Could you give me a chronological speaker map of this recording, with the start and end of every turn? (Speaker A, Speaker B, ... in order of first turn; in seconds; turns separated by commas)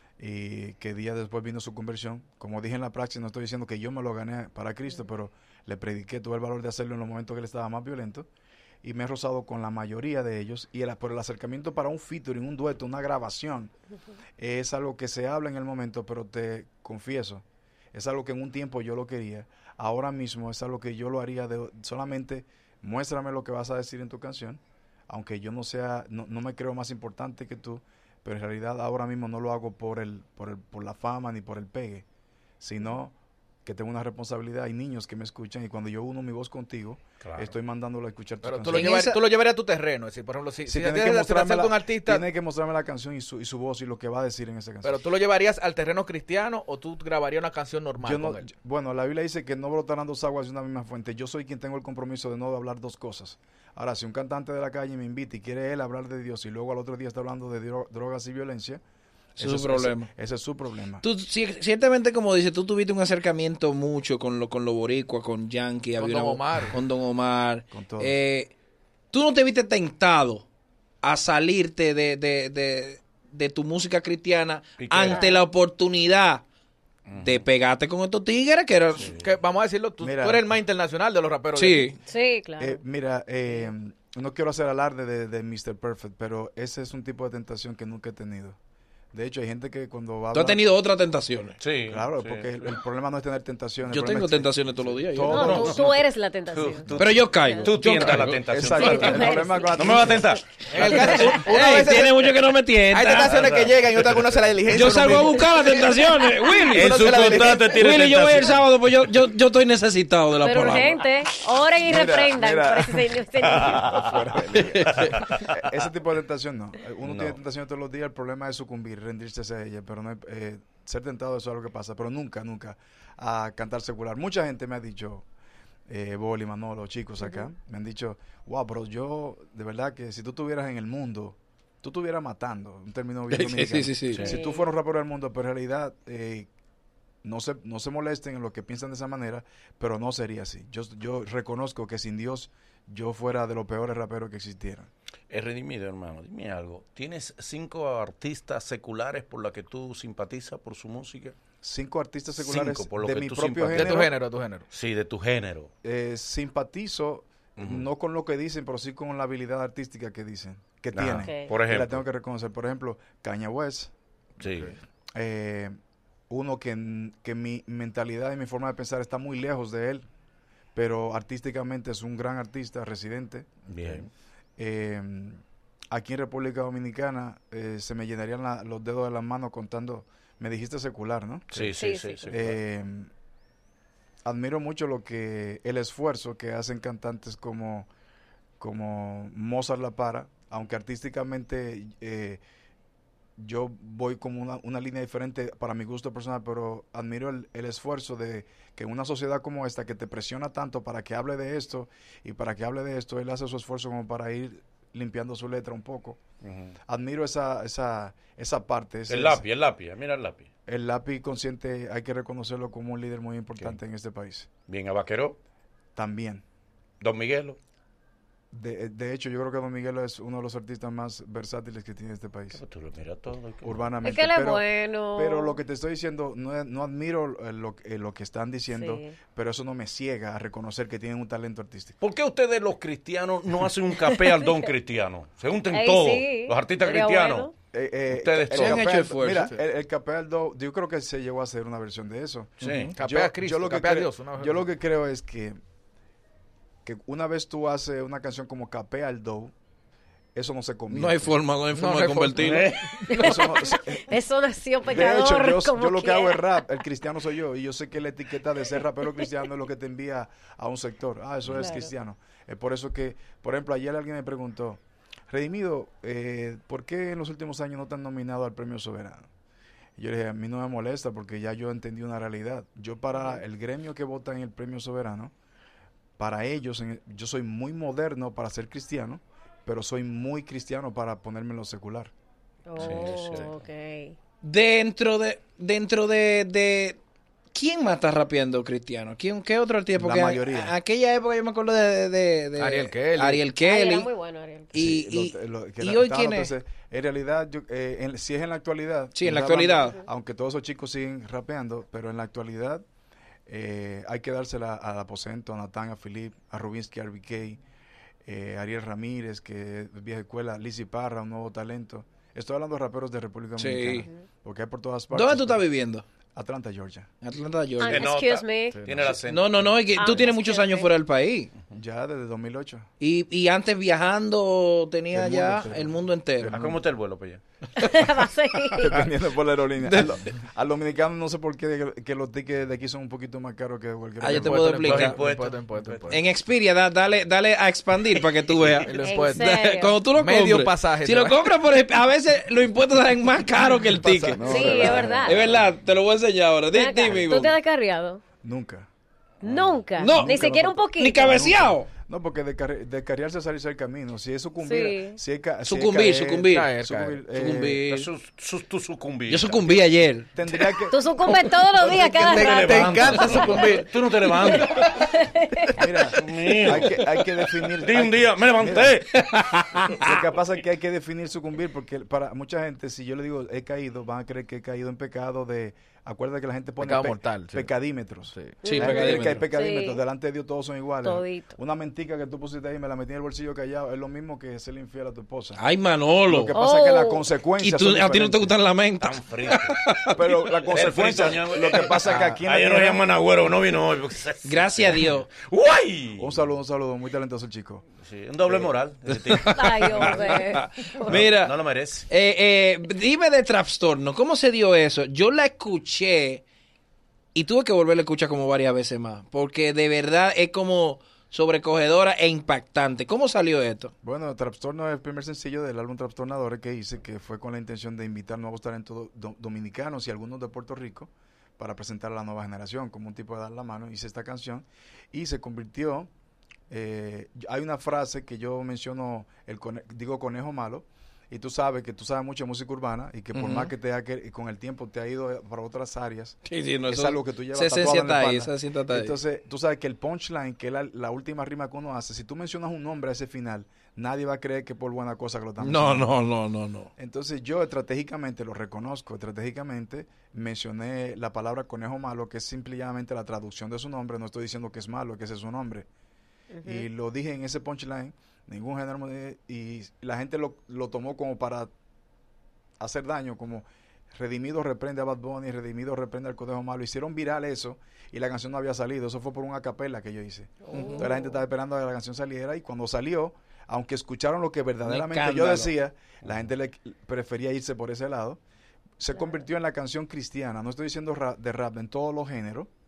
Speaker A: 0.2-8.3, Speaker A: 8.8-13.7, Speaker A: 14.4-32.0, Speaker A: 32.6-38.9, Speaker B: 37.2-37.5, Speaker C: 38.4-42.3, Speaker D: 38.7-39.2, Speaker A: 40.7-45.0, Speaker C: 44.8-48.5, Speaker A: 48.0-58.8, Speaker A: 59.4-61.0, Speaker D: 59.4-60.1, Speaker D: 61.0-68.5, Speaker C: 66.0-66.8, Speaker A: 67.7-68.2, Speaker D: 69.1-70.5, Speaker D: 71.0-76.4, Speaker B: 74.8-75.2, Speaker E: 75.1-75.4, Speaker B: 77.1-77.5, Speaker D: 77.2-79.1, Speaker B: 79.0-79.3, Speaker C: 79.2-82.0, Speaker A: 80.0-80.5, Speaker D: 81.6-82.0, Speaker E: 82.1-82.8, Speaker A: 82.6-88.6, Speaker A: 89.1-90.7, Speaker D: 90.3-91.6, Speaker B: 91.6-92.7, Speaker A: 91.9-95.9, Speaker D: 93.9-95.5, Speaker E: 95.3-97.7, Speaker B: 95.3-101.0, Speaker D: 97.0-98.4, Speaker A: 98.4-100.4, Speaker E: 98.7-100.2, Speaker C: 100.7-102.4, Speaker E: 101.1-101.3, Speaker D: 101.1-103.4, Speaker C: 102.9-105.7, Speaker B: 103.3-104.3, Speaker D: 104.7-111.0, Speaker C: 106.7-107.8, Speaker B: 106.7-108.7, Speaker E: 110.4-114.1, Speaker A: 111.8-125.2, Speaker B: 113.4-114.2, Speaker B: 114.9-115.6, Speaker B: 117.0-117.4, Speaker A: 125.9-136.5, Speaker D: 133.3-134.2, Speaker B: 134.1-134.4, Speaker E: 134.3-134.7, Speaker A: 137.2-144.9, Speaker B: 145.3-151.4, Speaker A: 151.6-154.1, Speaker B: 152.4-154.1, Speaker C: 153.7-154.7, Speaker B: 154.7-155.7, Speaker A: 155.8-163.9, Speaker B: 157.6-157.9, Speaker B: 160.9-162.0, Speaker E: 161.2-161.5, Speaker B: 164.4-164.8, Speaker A: 165.2-165.8, Speaker A: 166.3-170.1, Speaker A: 170.8-173.5, Speaker B: 173.7-174.1, Speaker A: 174.6-181.7, Speaker B: 181.5-182.6, Speaker E: 181.8-182.3, Speaker A: 182.3-183.1, Speaker A: 184.2-187.9, Speaker A: 188.6-192.4, Speaker A: 193.4-206.2, Speaker B: 206.4-206.8, Speaker A: 206.9-209.5, Speaker B: 209.1-210.5, Speaker A: 210.7-214.5, Speaker B: 214.7-215.4, Speaker A: 215.9-216.4, Speaker B: 217.0-217.6, Speaker A: 218.5-222.6, Speaker B: 222.5-223.9, Speaker A: 223.6-224.6, Speaker E: 224.0-225.6, Speaker A: 225.2-232.0, Speaker E: 228.7-229.1, Speaker B: 232.0-237.5, Speaker E: 234.1-234.5, Speaker E: 235.7-237.5, Speaker A: 237.7-245.6, Speaker B: 238.1-238.8, Speaker D: 238.5-239.5, Speaker B: 242.6-242.9, Speaker D: 242.6-242.9, Speaker C: 243.0-244.6, Speaker A: 246.8-249.5, Speaker A: 250.3-251.4, Speaker D: 250.9-252.7, Speaker C: 251.7-253.0, Speaker B: 252.4-253.0, Speaker E: 253.1-256.6, Speaker A: 253.1-254.2, Speaker A: 254.8-269.3, Speaker E: 261.6-261.9, Speaker A: 270.0-275.3, Speaker A: 276.2-282.1, Speaker E: 282.7-284.2, Speaker B: 282.8-283.5, Speaker D: 284.4-287.0, Speaker D: 287.5-294.1, Speaker A: 289.9-290.7, Speaker C: 292.6-293.5, Speaker E: 293.6-294.9, Speaker D: 294.7-296.5, Speaker A: 294.7-302.8, Speaker D: 299.1-300.0, Speaker A: 303.5-307.6, Speaker A: 308.2-315.6, Speaker D: 313.6-314.1, Speaker D: 315.1-316.0, Speaker A: 316.3-317.1, Speaker D: 317.2-318.1, Speaker E: 317.8-318.8, Speaker B: 317.9-320.2, Speaker C: 318.7-319.2, Speaker D: 319.3-321.5, Speaker E: 320.0-320.9, Speaker A: 321.7-322.9, Speaker D: 323.0-326.5, Speaker A: 325.1-326.8, Speaker B: 326.4-327.4, Speaker E: 327.8-329.1, Speaker A: 328.8-334.9, Speaker D: 329.8-330.1, Speaker D: 334.2-335.2, Speaker C: 334.3-336.2, Speaker B: 334.8-336.2, Speaker D: 336.1-347.5, Speaker C: 338.6-341.5, Speaker E: 339.0-340.0, Speaker A: 343.9-345.4, Speaker E: 344.4-345.4, Speaker B: 344.8-345.1, Speaker E: 346.7-348.2, Speaker A: 348.4-348.9, Speaker E: 349.4-351.4, Speaker B: 349.4-349.7, Speaker D: 350.0-350.4, Speaker A: 350.1-357.8, Speaker D: 351.0-351.9, Speaker E: 354.6-355.2, Speaker D: 355.6-356.7, Speaker C: 356.4-357.2, Speaker D: 357.3-358.1, Speaker B: 357.9-359.9, Speaker D: 359.3-360.3, Speaker A: 360.4-361.1, Speaker E: 360.9-363.7, Speaker B: 361.8-364.9, Speaker C: 361.9-363.9, Speaker E: 364.3-366.1, Speaker A: 365.7-369.0, Speaker B: 366.1-367.1, Speaker B: 367.8-369.8, Speaker D: 369.1-370.0, Speaker A: 370.0-385.6, Speaker C: 376.8-377.7, Speaker C: 378.3-378.6, Speaker E: 378.6-380.0, Speaker D: 378.6-379.4, Speaker E: 381.0-381.5, Speaker D: 385.6-386.5, Speaker A: 386.3-388.6, Speaker E: 386.5-387.3, Speaker D: 387.6-390.2, Speaker B: 389.0-389.8, Speaker A: 390.1-393.0, Speaker B: 390.6-396.4, Speaker D: 394.4-395.3, Speaker A: 396.2-397.9, Speaker B: 398.0-400.4, Speaker D: 399.1-401.5, Speaker E: 399.6-401.2, Speaker B: 401.1-402.1, Speaker D: 402.1-406.4, Speaker D: 407.4-413.9, Speaker A: 414.0-426.1, Speaker A: 426.7-446.1, Speaker D: 433.3-433.7, Speaker D: 436.5-439.1, Speaker D: 445.6-446.9, Speaker A: 447.0-455.9, Speaker E: 456.5-456.9, Speaker A: 456.6-461.7, Speaker A: 462.8-478.4, Speaker E: 470.6-471.4, Speaker D: 470.7-471.1, Speaker D: 474.9-475.7, Speaker A: 479.0-482.7